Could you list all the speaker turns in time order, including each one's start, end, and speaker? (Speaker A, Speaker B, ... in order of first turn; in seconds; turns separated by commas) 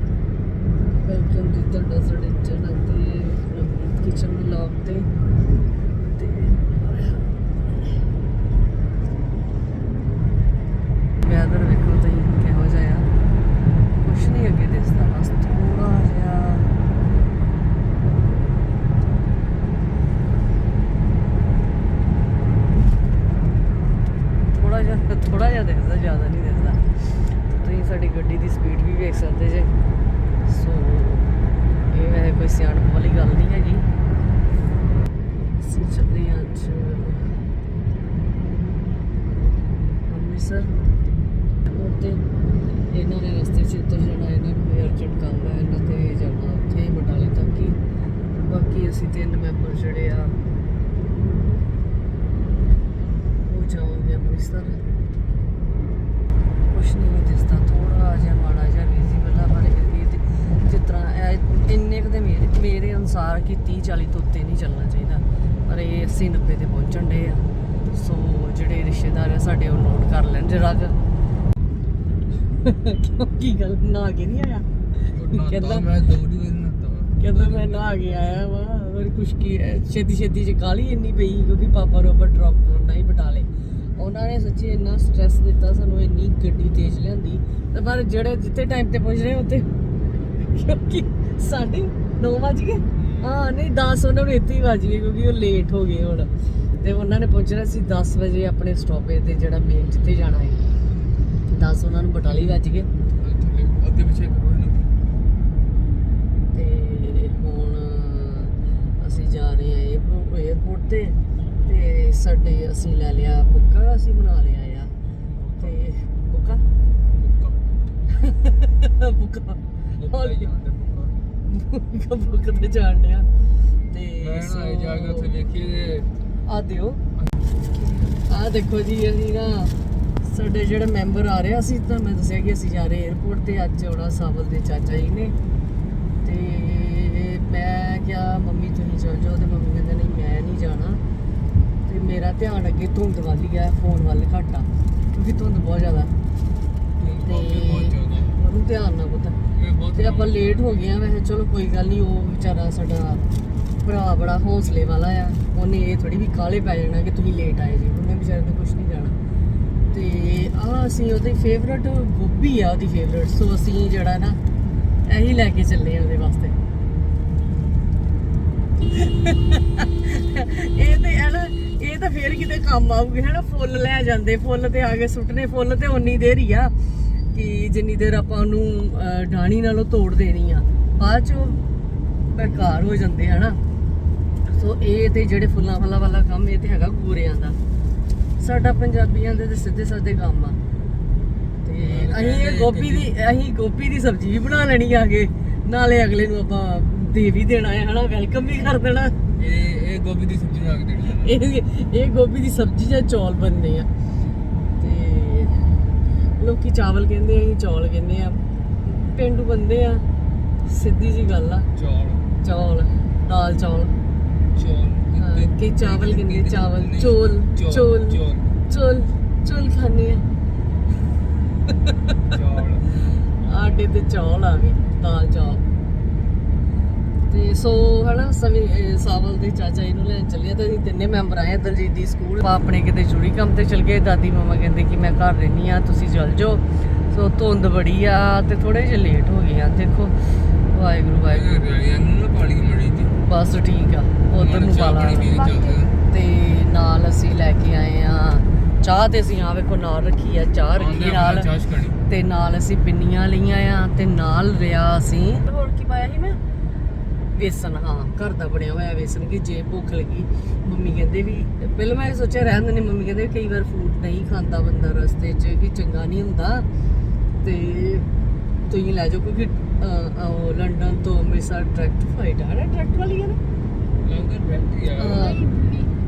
Speaker A: 1.0-5.1, Speaker A: 6.1-8.0, Speaker A: 11.2-13.1, Speaker A: 14.0-16.8, Speaker A: 24.5-29.7, Speaker A: 30.4-31.3, Speaker A: 31.9-33.9, Speaker A: 35.3-37.4, Speaker A: 40.1-40.7, Speaker A: 41.7-42.2, Speaker A: 42.9-47.8, Speaker A: 48.4-50.4, Speaker A: 53.5-54.8, Speaker A: 56.7-71.0, Speaker A: 72.5-75.8, Speaker B: 75.1-77.9, Speaker A: 77.2-96.3, Speaker B: 92.9-93.4, Speaker A: 96.8-100.6, Speaker A: 101.5-102.9, Speaker B: 103.1-105.0, Speaker A: 106.5-114.9, Speaker B: 115.1-115.8, Speaker A: 115.6-116.6, Speaker B: 117.1-118.0, Speaker A: 118.1-120.5, Speaker B: 119.9-121.2, Speaker A: 121.5-123.3, Speaker A: 123.9-125.3, Speaker B: 124.2-126.1, Speaker A: 126.5-127.0, Speaker B: 127.1-128.2, Speaker A: 128.3-135.3, Speaker A: 136.2-141.0, Speaker A: 141.8-146.1, Speaker B: 147.0-148.4, Speaker A: 147.2-149.4, Speaker B: 149.5-150.8, Speaker A: 149.9-153.2, Speaker A: 153.8-159.2, Speaker A: 159.9-164.4, Speaker A: 165.1-166.6, Speaker A: 168.9-176.7, Speaker A: 177.3-181.6, Speaker A: 182.3-183.6, Speaker A: 184.5-187.6, Speaker A: 188.4-190.6, Speaker A: 191.6-199.2, Speaker B: 191.8-193.1, Speaker B: 199.4-201.3, Speaker A: 201.2-203.9, Speaker A: 204.8-205.7, Speaker A: 206.4-210.0, Speaker A: 210.6-211.7, Speaker B: 211.8-212.3, Speaker A: 212.4-214.0, Speaker B: 214.5-218.5, Speaker A: 215.2-220.2, Speaker B: 222.3-222.9, Speaker A: 223.1-225.6, Speaker A: 227.3-241.7, Speaker B: 241.3-243.1, Speaker A: 243.2-245.5, Speaker B: 244.3-245.9, Speaker A: 246.0-251.5, Speaker B: 250.7-252.0, Speaker A: 252.1-256.4, Speaker A: 257.3-266.6, Speaker A: 267.4-268.1, Speaker A: 268.6-273.4, Speaker B: 274.0-275.5, Speaker A: 274.8-275.9